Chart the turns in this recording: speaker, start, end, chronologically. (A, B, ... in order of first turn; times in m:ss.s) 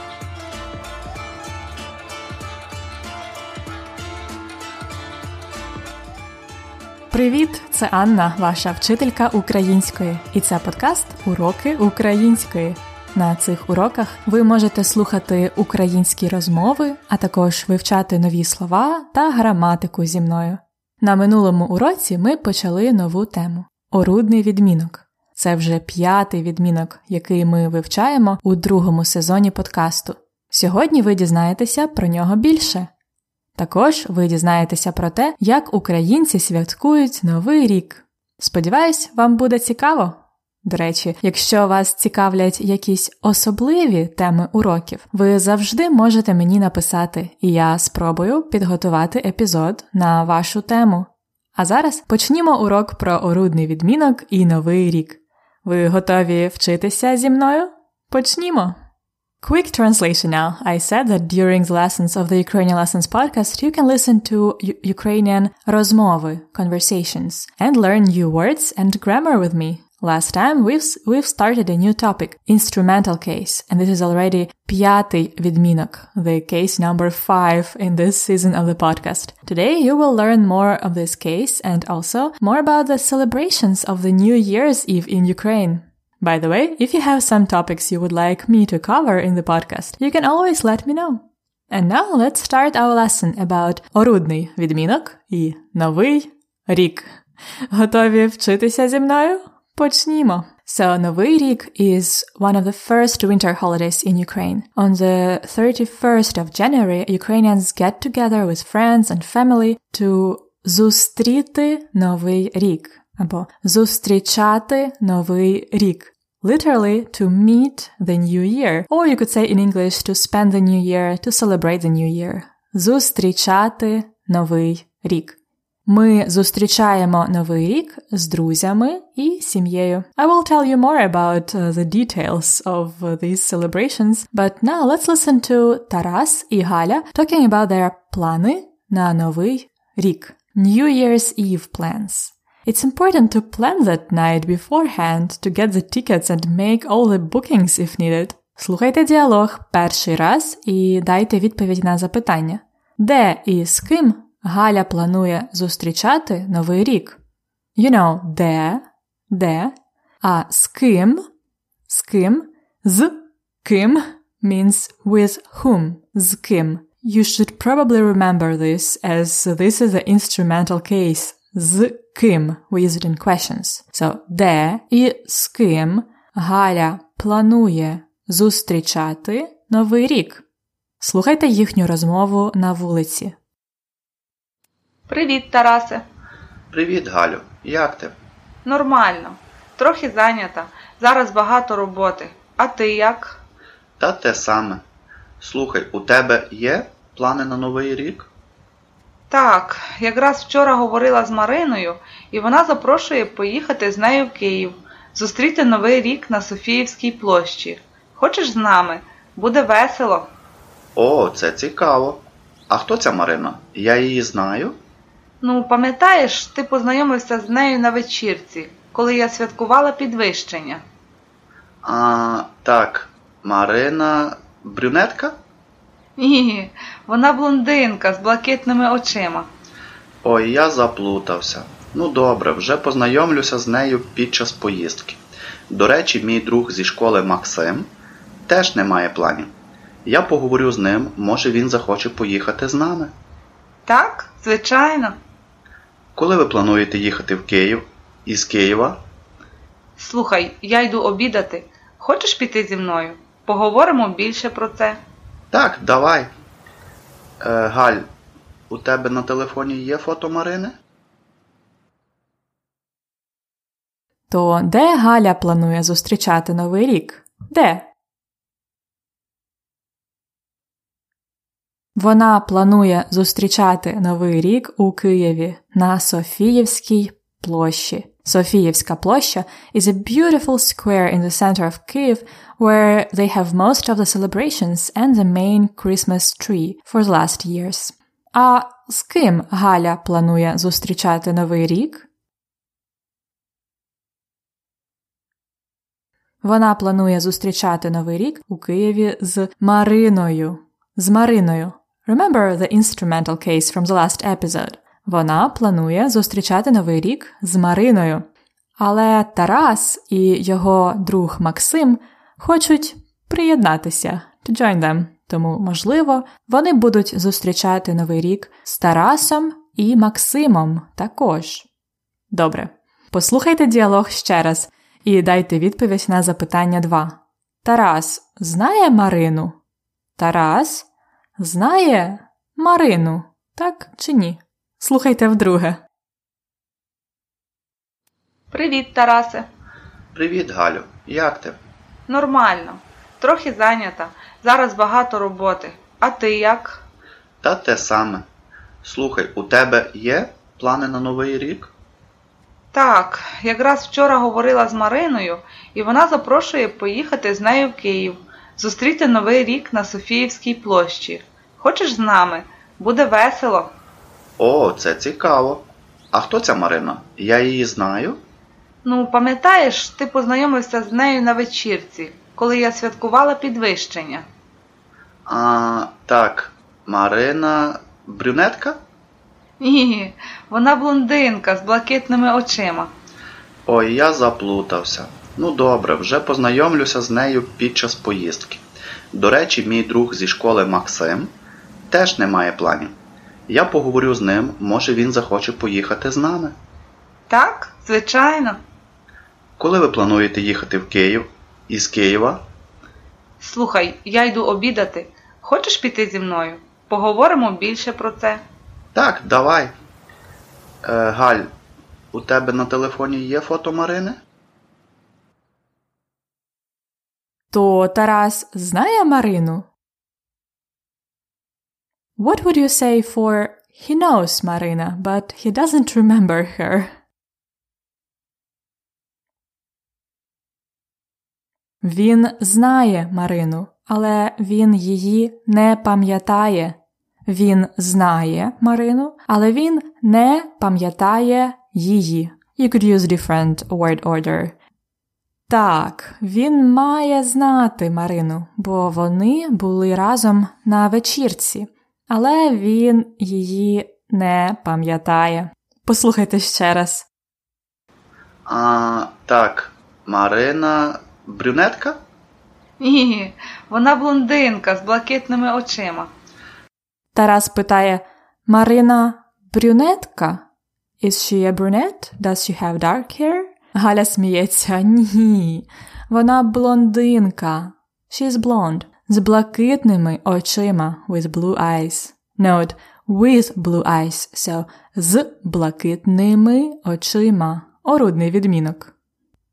0:07.1-0:32.9 A
0:33.5-0:58.8 A
0:59.4-1:37.1 A
1:37.7-2:37.2 A
2:37.8-2:41.2 A
2:41.9-3:00.4 A
3:01.0-3:03.4 A
3:05.1-3:06.0 B
3:06.7-3:08.1 C
3:08.6-3:13.4 B
3:14.0-3:14.8 C
3:15.4-3:18.3 C
3:19.3-3:30.3 B
3:30.9-3:34.8 C
3:35.4-3:40.8 B
3:41.8-3:45.4 C
3:46.2-3:49.5 B
3:50.2-3:57.9 C
3:58.5-3:59.5 C
4:00.0-4:03.1 C
4:03.9-4:05.2 B
4:06.2-4:09.0 C
4:10.0-4:15.0 B
4:15.5-4:16.3 C
4:17.4-4:18.0 C
4:18.7-4:20.7 C
4:24.3-4:27.9 A
4:32.0-4:52.0 A
4:56.4-5:08.2 A
5:08.8-5:21.7 A
5:22.3-5:29.6 A
5:30.2-5:30.9 A
5:31.4-5:35.8 A
5:38.5-5:39.5 B
5:40.1-5:41.6 C
5:42.1-5:46.8 B
5:47.4-5:48.2 C
5:48.8-5:51.7 C
5:52.7-6:03.7 B
6:04.4-6:08.2 C
6:08.8-6:14.2 B
6:15.2-6:18.8 C
6:19.6-6:22.9 B
6:23.6-6:31.3 C
6:31.9-6:32.9 C
6:33.5-6:36.6 C
6:37.3-6:38.6 B
6:39.6-6:42.4 C
6:43.4-6:48.4 B
6:48.9-6:49.7 C
6:50.8-6:51.5 C
6:52.1-6:54.2 C
6:57.5-6:59.7 A
7:02.2-7:06.9 A
7:11.8-7:24.6 A
7:25.5-7:37.1 A
7:38.4-7:42.0 C
7:42.8-7:46.1 B
7:47.1-7:50.4 A
7:51.0-8:08.9 A